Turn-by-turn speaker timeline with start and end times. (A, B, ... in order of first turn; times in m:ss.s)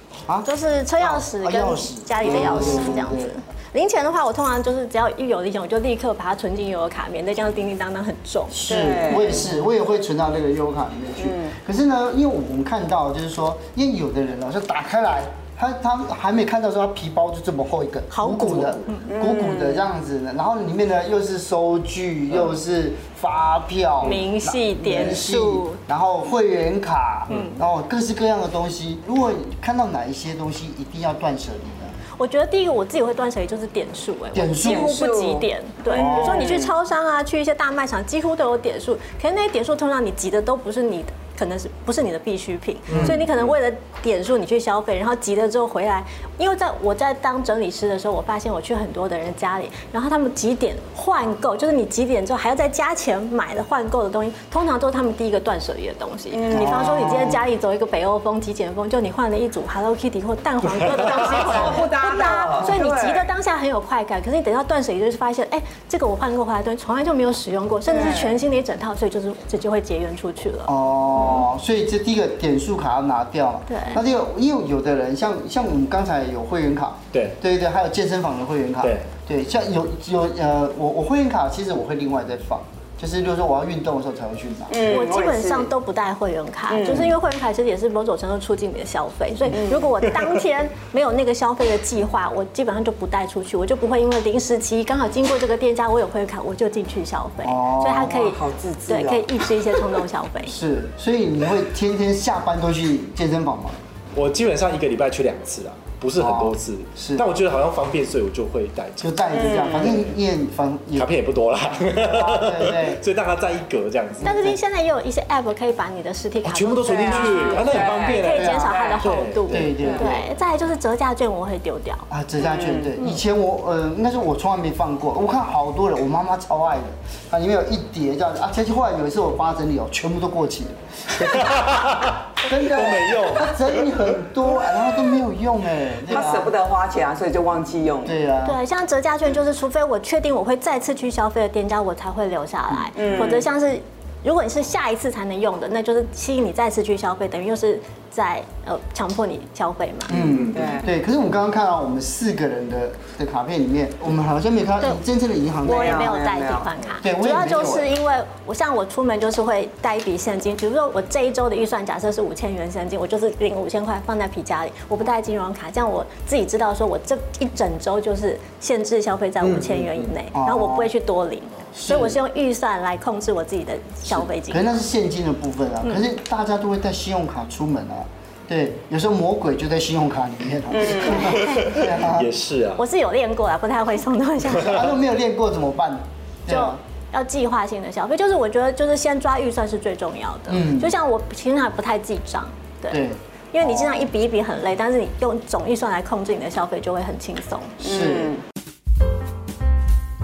0:00.3-0:03.4 A
0:00.4-0:09.3 B
0:08.5-0:32.0 A
0:08.7-0:09.5 C
0:11.2-0:11.6 C
0:18.1-0:19.1 B
0:19.1-0:19.9 C
0:24.0-0:25.8 B
0:27.3-0:27.6 B
0:32.2-1:10.7 B
0:34.3-0:35.0 A
0:34.6-0:36.7 C
0:35.9-0:36.6 A
0:42.9-0:43.5 D
0:42.9-0:43.2 A
0:56.3-0:57.3 C
0:56.5-0:57.4 A
1:00.9-1:03.3 C
1:07.9-1:08.4 C
1:10.7-1:24.8 A
1:11.2-1:11.5 D
1:13.7-1:14.0 B
1:17.1-1:17.4 D
1:18.8-1:19.1 D
1:24.7-1:25.7 C
1:24.8-1:40.6 B
1:26.7-1:27.1 C
1:29.5-1:29.9 C
1:37.4-1:38.2 A
1:38.0-1:39.3 C
1:40.5-1:43.8 A
1:44.2-1:49.2 D
1:46.2-1:47.2 A
1:49.0-1:51.1 A
1:49.3-1:50.1 C
1:51.0-1:54.4 D
1:51.9-1:53.0 A
1:54.2-1:54.6 A
1:54.2-2:02.1 B
1:56.4-1:59.9 D
1:56.8-1:59.1 C
1:58.3-1:58.8 A
1:59.5-2:00.2 A
1:59.8-2:00.2 C
2:02.1-2:11.6 A
2:02.4-2:03.0 C
2:11.1-2:13.9 D
2:12.4-2:16.5 A
2:16.1-2:18.2 C
2:18.0-2:18.6 A
2:18.4-2:30.1 B
2:23.0-2:23.5 C
2:30.1-2:36.2 A
2:30.1-2:30.8 D
2:30.5-2:30.9 C
2:35.6-2:36.7 C
2:35.6-2:54.8 B
2:37.0-2:37.9 A
2:49.4-2:50.1 D
2:50.3-2:50.9 A
2:51.7-2:52.2 A
2:54.1-3:02.3 A
3:00.7-3:01.4 C
3:01.1-3:01.8 B
3:01.3-3:02.8 D
3:02.8-3:04.9 B
3:04.6-3:06.8 A
3:06.5-3:13.0 B
3:10.5-3:10.9 A
3:12.9-3:14.1 A
3:13.5-3:17.8 B
3:17.8-3:18.3 A
3:17.8-3:18.4 C